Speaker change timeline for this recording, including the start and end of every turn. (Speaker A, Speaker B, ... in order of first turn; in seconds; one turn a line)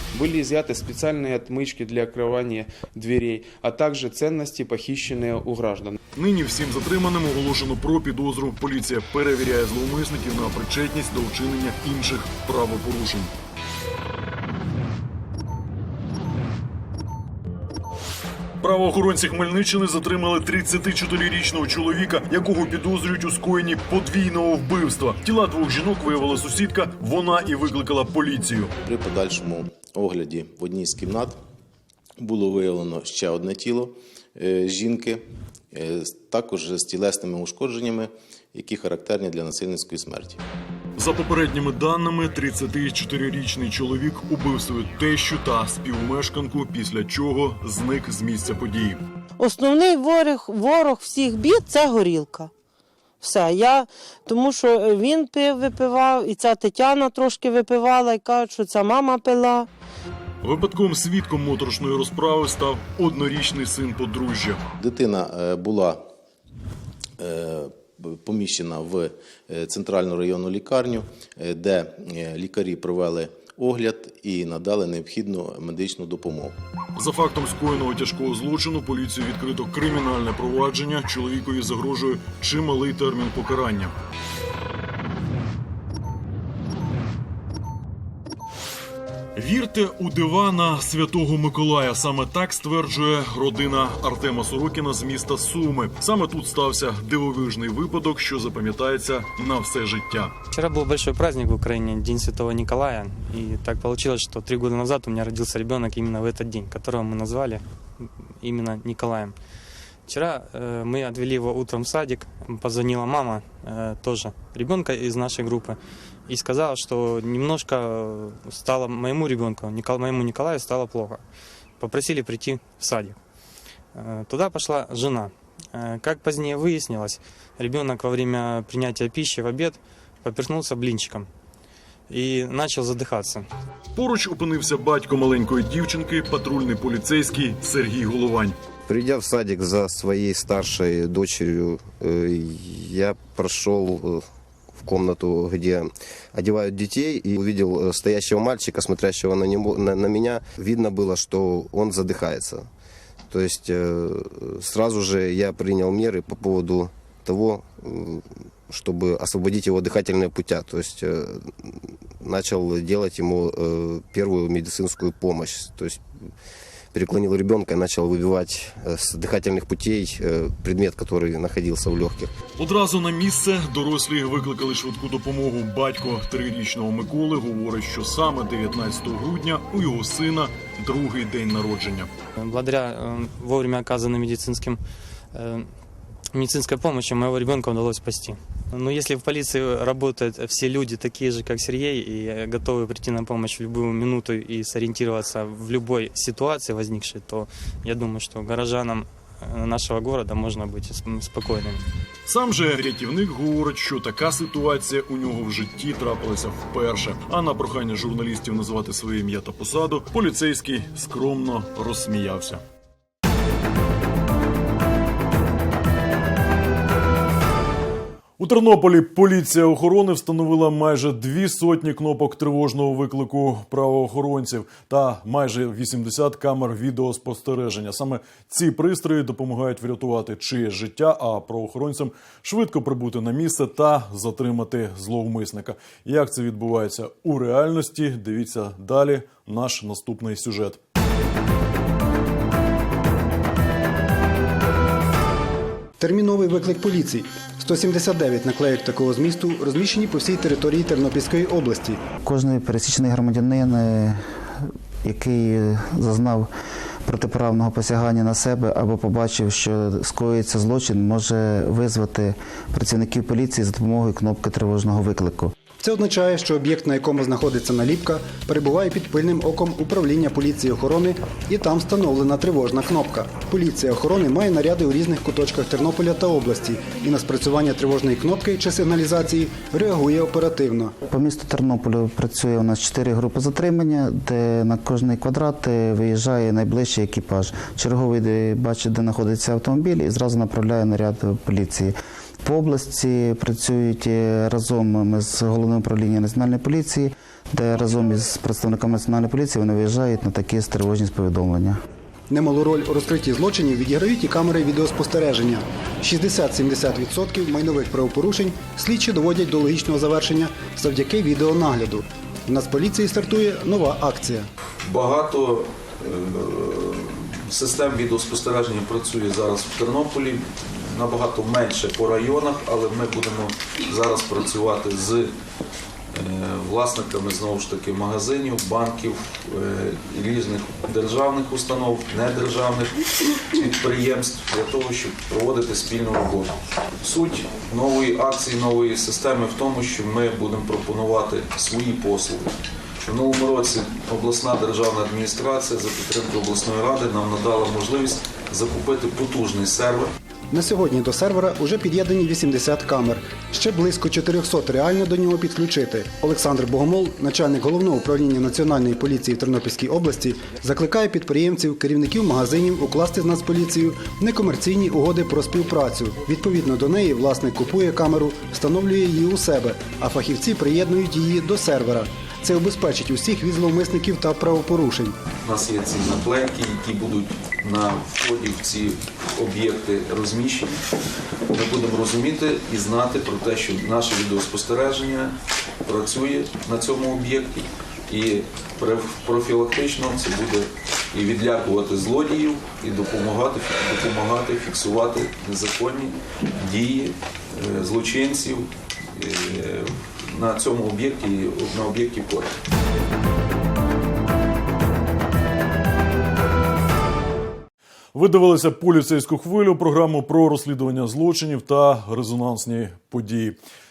Speaker A: 0.1-6.0
Speaker B: 6.2-13.3
Speaker B: 18.6-28.7
Speaker C: 28.8-31.4
Speaker C: 32.2-40.4
Speaker B: 41.0-49.0
Speaker D: 49.4-52.5
Speaker D: 53.2-59.7
Speaker B: 60.4-64.6
Speaker C: 64.8-66.0
Speaker C: 67.2-76.5
Speaker B: 77.0-83.9
Speaker B: 89.4-100.3
Speaker E: 100.5-109.3
Speaker E: 110.1-121.2
Speaker E: 121.8-123.2
Speaker E: 123.9-131.3
Speaker E: 132.1-133.4
Speaker B: 133.9-138.6
Speaker F: 138.9-144.2
Speaker F: 144.8-152.7
Speaker F: 153.3-166.0
Speaker F: 166.9-172.3
Speaker B: 172.6-182.1
Speaker E: 182.4-184.8
Speaker E: 185.3-185.7
Speaker E: 186.3-201.8
Speaker B: 202.3-212.6
Speaker B: 218.4-240.8
Speaker G: 246.0-252.0
Speaker H: 252.2-254.5
Speaker H: 255.0-256.5
Speaker H: 257.1-265.5
Speaker G: 265.8-280.9
Speaker H: 281.1-301.8
Speaker G: 302.3-314.5
Speaker I: 314.8-325.3
Speaker I: 326.1-332.9
Speaker I: 333.5-342.5
Speaker I: 343.0-350.1
Speaker G: 350.5-375.1
Speaker I: 375.4-380.8
Speaker I: 381.5-385.3
Speaker I: 385.9-402.5
Speaker B: 408.1-413.6